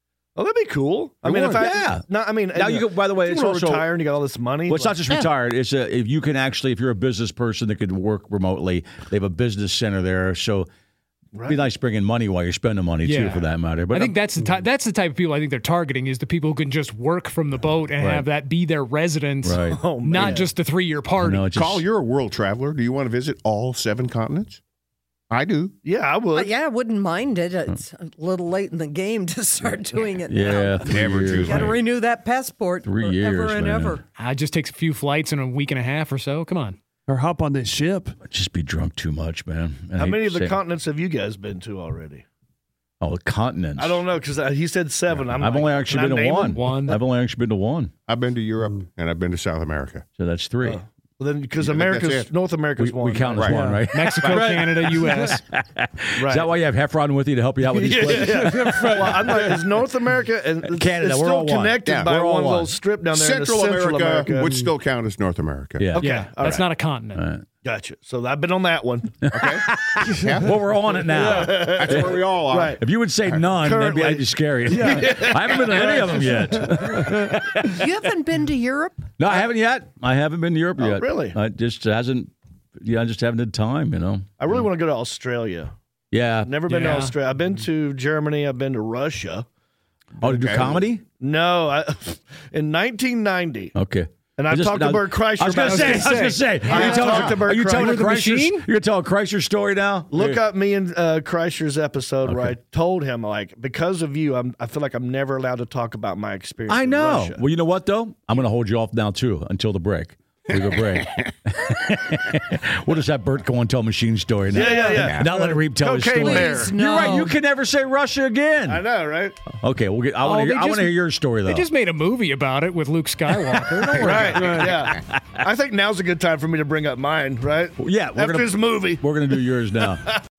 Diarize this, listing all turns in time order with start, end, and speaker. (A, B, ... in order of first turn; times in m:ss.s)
0:00.4-0:05.0 A
0:01.2-0:01.6 B
0:01.5-0:04.0 C
0:04.7-0:10.7 C
0:11.3-0:11.6 A
0:11.4-0:14.1 C
0:13.0-0:21.5 D
0:18.0-0:18.3 C
0:19.4-0:19.9 C
0:19.7-0:20.5 A
0:21.2-0:21.8 C
0:21.5-0:24.6 B
0:25.3-0:25.8 B
0:25.8-0:26.6 A
0:26.3-0:34.0 E
0:30.3-0:31.8 C
0:30.8-0:31.7 B
0:32.8-0:34.0 C
0:34.2-0:36.8 D
0:37.1-0:38.2 F
0:38.2-0:40.6 C
0:40.0-0:42.2 A
0:43.0-0:44.0 C
0:43.8-0:46.6 A
0:45.3-0:47.9 C
0:46.5-0:47.0 D
0:48.1-0:50.0 B
0:50.2-0:50.8 C
0:50.6-0:53.5 A
0:51.6-0:52.3 B
0:52.8-0:59.6 C
0:53.3-0:53.6 B
0:53.5-0:53.9 F
0:53.9-0:55.4 D
0:54.2-0:54.6 B
0:56.2-0:56.5 A
0:57.6-0:59.3 F
0:57.8-1:04.5 A
1:00.6-1:02.7 C
1:01.8-1:02.2 B
1:03.1-1:05.9 B
1:05.8-1:06.6 C
1:06.0-1:06.7 A
1:06.0-1:07.3 D
1:07.1-1:07.4 C
1:07.6-1:09.1 A
1:09.2-1:18.1 C
1:09.3-1:09.7 B
1:10.2-1:10.5 B
1:10.9-1:11.4 F
1:11.0-1:12.8 A
1:11.6-1:13.5 B
1:13.6-1:16.4 A
1:14.7-1:15.1 F
1:16.4-1:17.2 F
1:17.8-1:19.1 E
1:19.2-1:24.6 C
1:20.8-1:21.4 A
1:24.4-1:25.7 A
1:26.1-1:26.7 C
1:26.4-1:29.4 A
1:26.7-1:27.1 D
1:30.2-1:31.0 C
1:30.2-1:33.7 A
1:30.3-1:30.8 B
1:33.7-1:40.4 C
1:34.4-1:36.3 A
1:35.5-1:37.0 D
1:36.6-1:37.4 B
1:36.8-1:38.0 A
1:37.6-1:38.7 D
1:40.1-1:47.4 A
1:42.2-1:42.6 C
1:46.7-1:58.8 C
1:54.5-1:56.7 A
1:54.6-1:55.0 E
1:54.9-1:55.3 B
1:56.1-1:57.4 E
1:58.6-1:59.4 A
1:59.5-2:01.7 C
2:00.2-2:04.4 D
2:03.9-2:09.1 A
2:04.0-2:05.1 C
2:04.4-2:04.8 F
2:07.8-2:10.1 C